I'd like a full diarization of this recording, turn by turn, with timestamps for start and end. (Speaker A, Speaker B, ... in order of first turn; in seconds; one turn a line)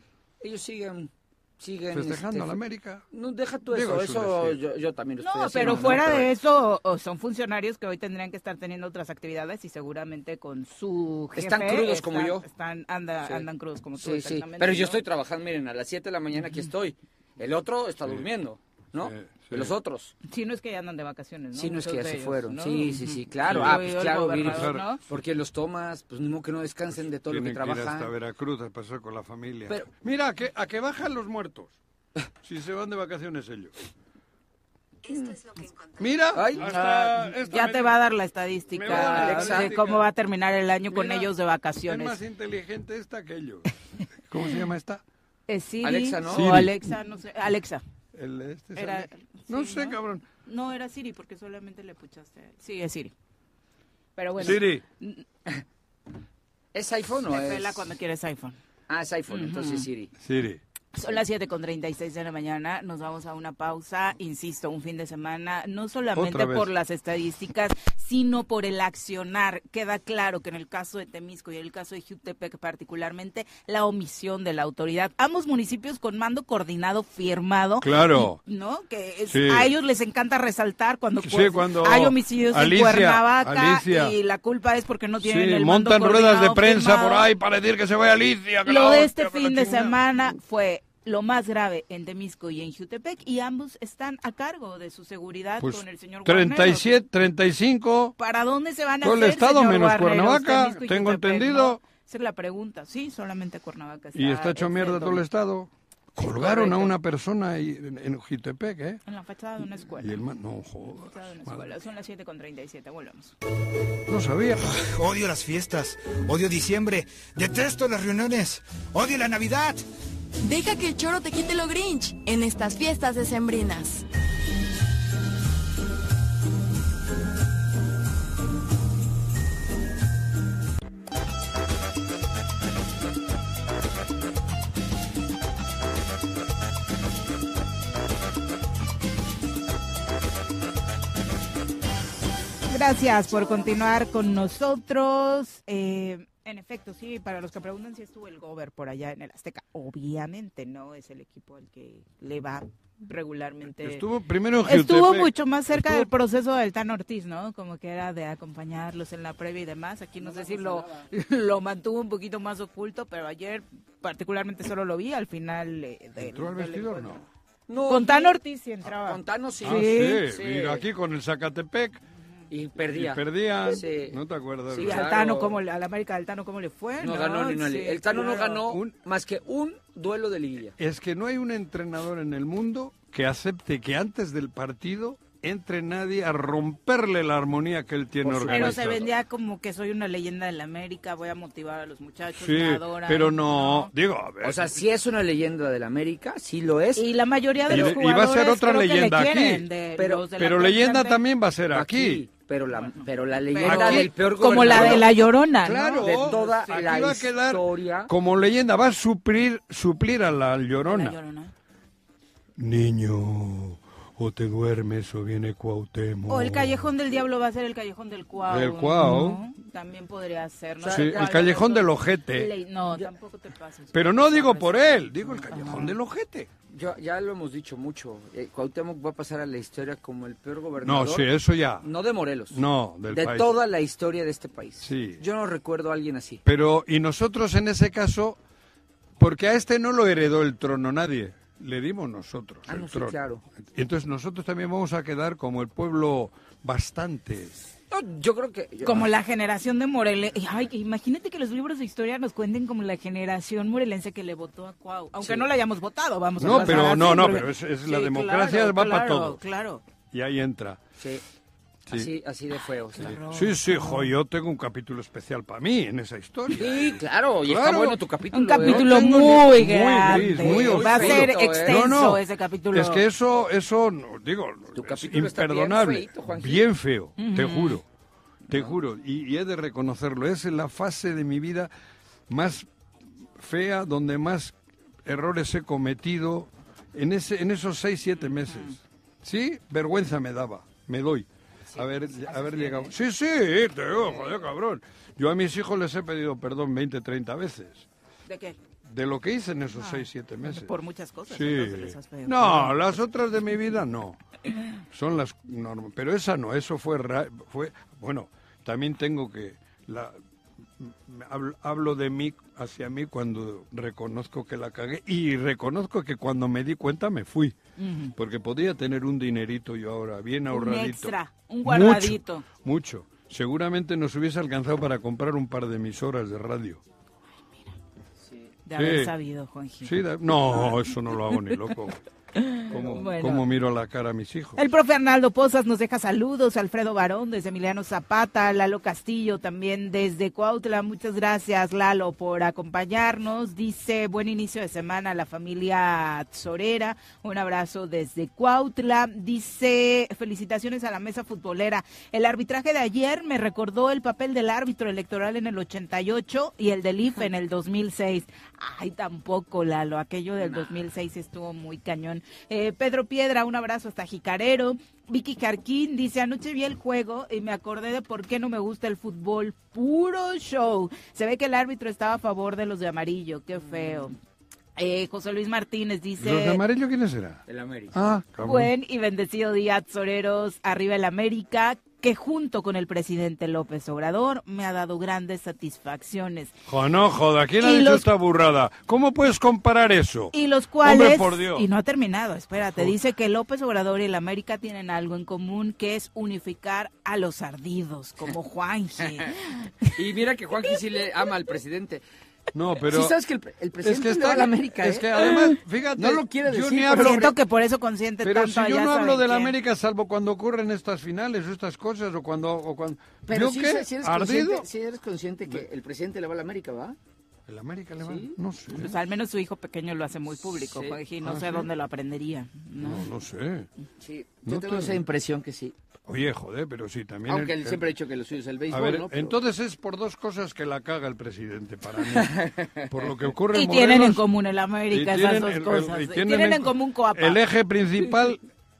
Speaker A: 0.4-2.6
Speaker B: 1.9-3.0
Speaker A: 3.1-6.3
Speaker B: 3.7-4.6
Speaker C: 5.2-15.0
Speaker B: 5.6-6.2
Speaker A: 11.3-12.4
Speaker A: 14.0-20.1
Speaker B: 18.9-19.7
Speaker C: 20.2-25.0
Speaker A: 21.5-28.1
Speaker B: 23.4-24.8
Speaker B: 27.0-31.8
Speaker B: 32.4-33.7
Speaker A: 35.1-35.7
Speaker B: 36.0-38.0
Speaker A: 36.3-36.7
Speaker C: 36.6-42.2
Speaker B: 38.7-40.0
Speaker A: 38.9-39.8
Speaker B: 40.9-41.3
Speaker B: 41.9-43.7
Speaker B: 44.3-45.0
Speaker C: 45.5-47.8
Speaker A: 45.8-46.5
Speaker B: 46.3-46.7
Speaker B: 48.1-50.2
Speaker C: 48.8-53.1
Speaker C: 54.2-55.2
Speaker B: 54.4-54.8
Speaker A: 56.7-57.9
Speaker C: 57.3-58.6
Speaker A: 58.9-60.1
Speaker C: 59.3-59.9
Speaker B: 60.2-60.6
Speaker C: 60.9-87.3
Speaker B: 66.1-66.7
Speaker B: 77.8-78.4
Speaker B: 79.3-79.7
Speaker B: 81.2-84.2
Speaker B: 85.2-90.0
Speaker C: 88.6-97.0
Speaker B: 95.6-98.1
Speaker C: 98.2-105.2
Speaker B: 99.0-101.8
Speaker B: 104.1-109.0
Speaker C: 106.2-106.9
Speaker A: 106.4-106.7
Speaker C: 109.0-110.2
Speaker B: 109.8-111.7
Speaker C: 110.8-113.3
Speaker B: 114.1-114.7
Speaker D: 114.7-119.8
Speaker E: 120.4-124.0
Speaker C: 142.7-154.0
Speaker B: 153.7-156.1
Speaker C: 154.6-167.2
Speaker A: 160.2-161.1
Speaker B: 166.2-167.2
Speaker A: 167.7-170.8
Speaker C: 167.9-170.2
Speaker B: 169.6-172.0
Speaker A: 172.5-174.2
Speaker B: 172.9-175.2
Speaker A: 174.7-175.6
Speaker C: 174.7-178.6
Speaker A: 177.0-180.7
Speaker B: 178.6-178.9
Speaker B: 180.8-189.1
Speaker A: 188.2-189.1
Speaker C: 188.5-193.9
Speaker B: 192.3-194.8
Speaker A: 194.4-197.2
Speaker C: 196.9-201.2
Speaker A: 197.7-197.9
Speaker B: 197.7-199.7
Speaker A: 200.0-200.3
Speaker B: 200.3-202.2
Speaker A: 201.7-205.2
Speaker C: 202.7-206.9
Speaker B: 203.6-211.2
Speaker A: 206.0-208.1
Speaker C: 210.8-211.5
Speaker B: 212.6-216.9
Speaker C: 216.3-225.9
Speaker B: 218.5-219.4
Speaker A: 220.8-221.7
Speaker B: 220.9-222.5
Speaker B: 223.9-226.5
Speaker A: 226.7-231.3
Speaker B: 230.8-231.9
Speaker A: 231.8-236.4
Speaker B: 232.5-233.5
Speaker B: 234.8-235.2
Speaker B: 236.4-238.4
Speaker B: 239.2-247.6
Speaker A: 242.7-243.4
Speaker A: 247.9-249.1
Speaker C: 248.8-259.8
Speaker A: 255.2-255.5
Speaker A: 256.4-257.4
Speaker B: 256.4-259.4
Speaker B: 260.1-260.8
Speaker A: 261.9-263.1
Speaker C: 262.9-264.1
Speaker B: 263.0-268.0
Speaker A: 266.6-269.3
Speaker C: 268.3-273.0
Speaker B: 268.6-277.8
Speaker A: 270.1-271.8
Speaker A: 274.7-276.7
Speaker C: 277.2-277.8
Speaker A: 278.5-278.7
Speaker B: 278.5-281.7
Speaker B: 282.3-282.7
Speaker B: 283.4-297.9
Speaker C: 288.2-288.8
Speaker C: 292.3-292.9
Speaker C: 298.3-298.6
Speaker B: 298.8-300.7
Speaker C: 299.7-302.9
Speaker B: 301.3-304.2
Speaker B: 304.9-310.2
Speaker B: 310.8-317.6
Speaker C: 317.8-318.1
Speaker B: 318.2-326.8
Speaker C: 320.5-322.4
Speaker C: 328.6-331.5
Speaker B: 328.8-329.1
Speaker B: 329.8-332.0
Speaker C: 332.3-333.4
Speaker B: 332.7-334.6
Speaker A: 332.7-333.1
Speaker C: 334.6-374.1
Speaker A: 360.4-360.7
Speaker C: 374.8-376.6
Speaker B: 376.2-378.7
Speaker A: 377.5-377.9
Speaker C: 378.4-386.5
Speaker B: 386.7-391.7
Speaker C: 387.6-388.1
Speaker C: 390.3-399.9
Speaker A: 399.9-402.0
Speaker B: 402.5-403.1
Speaker A: 402.8-405.4
Speaker B: 403.8-407.3
Speaker A: 406.0-407.3
Speaker C: 406.9-409.5
Speaker B: 408.2-414.6
Speaker A: 413.2-417.0
Speaker B: 417.5-418.9
Speaker A: 418.0-418.4
Speaker C: 418.7-423.1
Speaker A: 420.6-421.0
Speaker B: 421.2-421.7
Speaker B: 422.8-423.7
Speaker A: 424.0-425.7
Speaker B: 424.4-425.0
Speaker B: 426.1-427.8
Speaker A: 427.3-429.4
Speaker B: 428.7-434.2
Speaker A: 432.1-432.9
Speaker C: 433.5-437.4
Speaker B: 434.9-438.4